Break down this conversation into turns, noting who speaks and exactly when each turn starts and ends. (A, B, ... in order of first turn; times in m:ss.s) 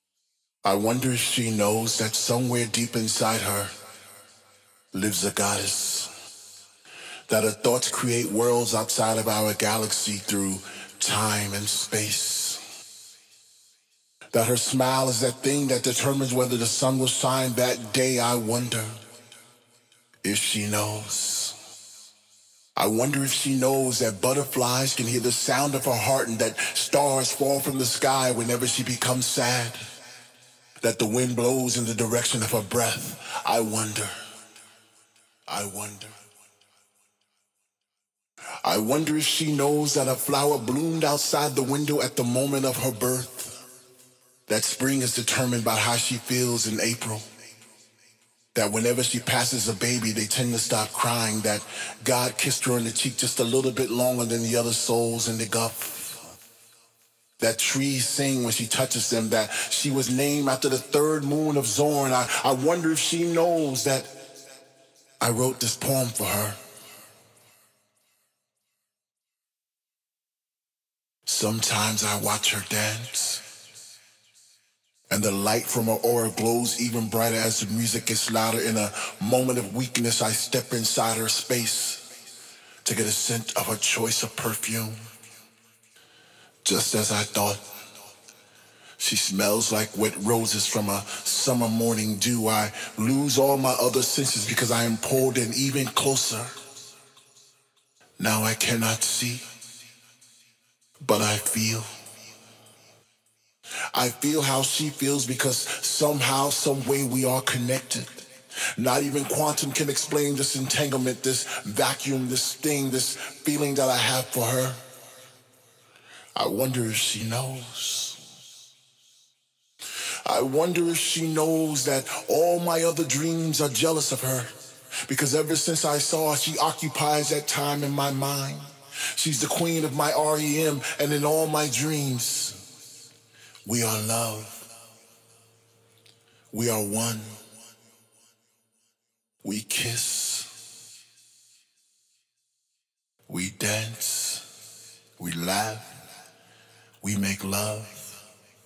0:00.6-0:03.7 A
0:04.9-0:06.1 A
0:07.3-0:12.6 A
0:14.3-0:19.0 A
0:20.2-0:21.5 A
0:22.8-0:29.8 A
0:30.8-0:34.1 A
0:35.5-0:36.2 A
0:38.6-0:43.6 A
0:44.5-0:47.2 A
0:48.5-0:56.2 A
0:57.4-1:04.1 A
1:05.2-1:06.6 A
1:11.2-1:13.4 A
1:15.1-1:22.0 A
1:22.8-1:25.1 A
1:26.6-1:27.6 A
1:29.0-1:36.5 A
1:38.2-1:39.4 A
1:41.0-1:41.9 A
1:43.9-1:48.2 A
1:48.8-1:54.8 A
1:56.4-1:58.2 A
2:00.2-2:04.5 A
2:05.0-2:12.6 A
2:13.6-2:14.6 A
2:16.5-2:17.4 A
2:19.4-2:20.5 A
2:23.3-2:24.4 A
2:25.2-2:26.0 A
2:27.0-2:28.2 A